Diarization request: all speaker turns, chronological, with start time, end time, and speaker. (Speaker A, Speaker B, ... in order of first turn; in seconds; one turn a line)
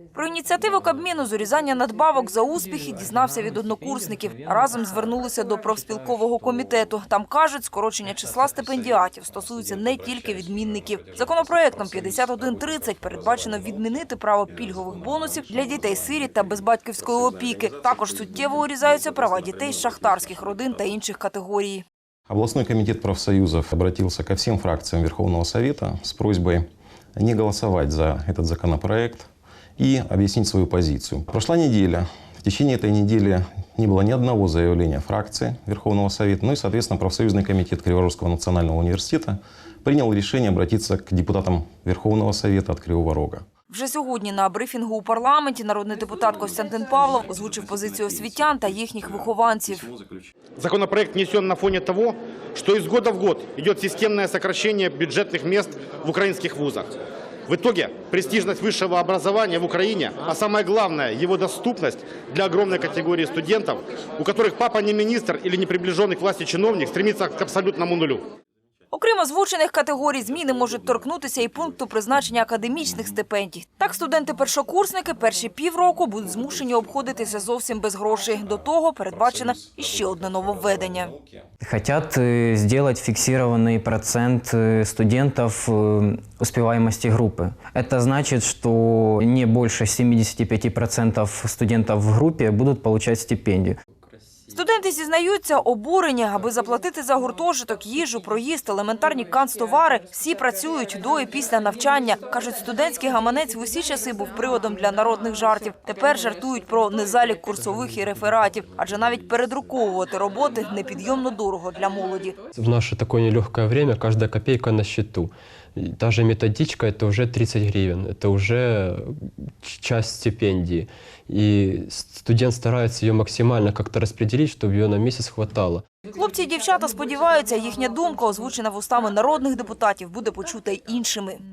Speaker A: 0.1-21.8
Speaker B: 9.6-20.8
Speaker B: 22.3-43.4
Speaker A: 43.7-49.9
Speaker B: 47.3-48.5
Speaker C: 50.6-56.9
Speaker C: 57.5-68.3
Speaker A: 68.9-81.1
Speaker B: 78.4-81.5
Speaker D: 81.6-93.8
Speaker A: 94.5-112.3
Speaker E: 112.5-125.8
Speaker A: 126.1-131.4